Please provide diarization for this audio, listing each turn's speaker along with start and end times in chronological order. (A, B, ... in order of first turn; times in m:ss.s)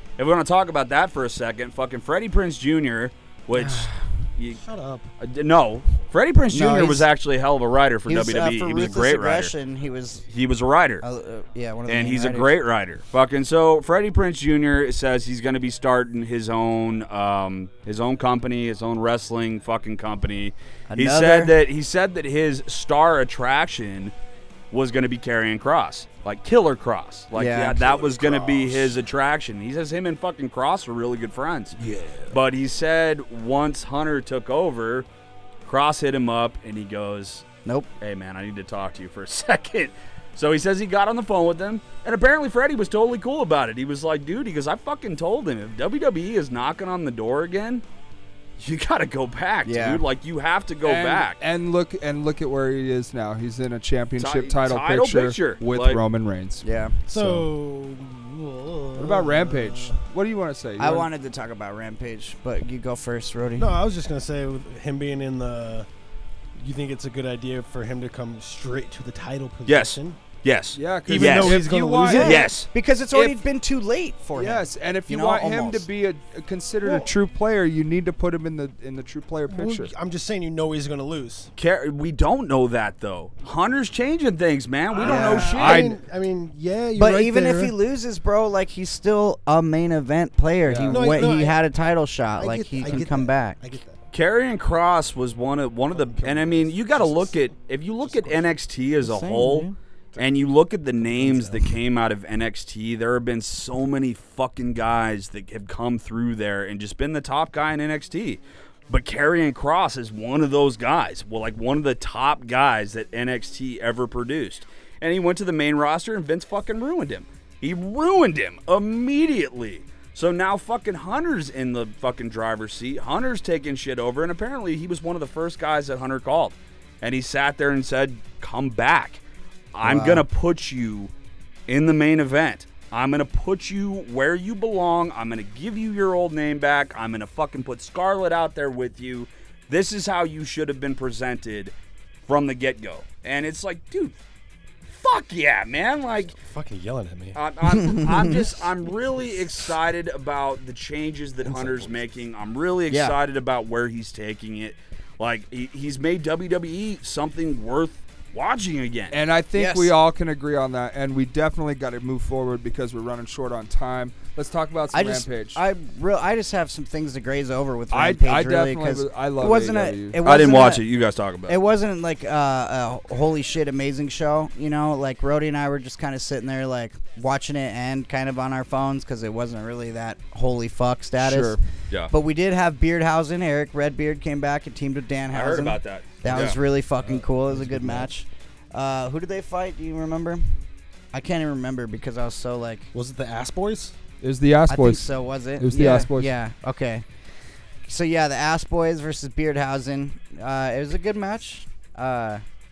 0:00.2-0:04.6 A
0:03.6-0:03.9 B
0:04.6-0:05.1 C
0:05.2-0:09.5 A
0:06.5-0:07.1 B
0:08.1-0:10.2 B
0:10.3-0:11.0 A
0:11.0-0:12.5 B
0:11.9-0:24.1 A
0:20.9-0:21.6 B
0:24.7-0:31.8 A
0:27.3-0:27.8 B
0:28.0-0:28.9 D
0:31.8-0:32.3 D
0:32.3-0:35.0 A
0:35.6-0:37.4 A
0:38.0-0:47.8 A
0:48.6-0:51.4 A
0:49.6-0:50.0 B
0:50.8-0:57.5 D
0:54.2-0:56.0 A
0:56.6-0:57.0 B
0:57.1-1:00.0 C
0:59.0-1:01.1 D
1:00.8-1:03.8 B
1:03.6-1:05.9 C
1:06.6-1:10.2 C
1:09.6-1:12.7 A
1:10.7-1:12.5 D
1:11.1-1:12.5 C
1:12.0-1:15.8 B
1:14.4-1:19.9 D
1:16.8-1:17.1 C
1:19.5-1:21.5 C
1:21.6-1:25.9 A
1:24.9-1:27.7 C
1:25.0-1:25.5 B
1:25.0-1:26.0 D
1:27.0-1:33.6 B
1:30.6-1:31.3 D
1:30.9-1:31.6 C
1:32.4-1:34.0 C
1:34.1-2:09.2 A
1:36.2-1:36.7 D
1:37.0-1:37.3 C
1:38.0-1:38.4 C
1:39.0-1:39.8 B
1:41.1-1:41.7 C
2:09.7-2:11.1 A
2:09.8-2:10.2 B
2:11.7-2:21.7 A
2:22.3-2:24.2 A
2:24.9-2:26.4 A
2:26.3-2:27.4 C
2:27.3-2:39.1 A
2:27.6-2:28.4 B
2:31.6-2:31.9 C
2:32.9-2:33.2 B
2:39.1-2:45.6 D
2:39.5-2:39.9 B
2:44.9-2:50.8 B
2:47.9-2:50.2 D
2:50.2-2:51.5 A
2:51.5-3:01.6 B
3:01.2-3:01.6 D
3:02.1-3:10.4 B
3:05.3-3:06.6 A
3:07.0-3:08.1 C
3:11.1-3:12.9 B
3:12.9-3:13.9 C
3:14.2-3:15.0 D
3:14.7-3:17.0 B
3:15.6-3:16.3 D
3:17.8-3:22.4 B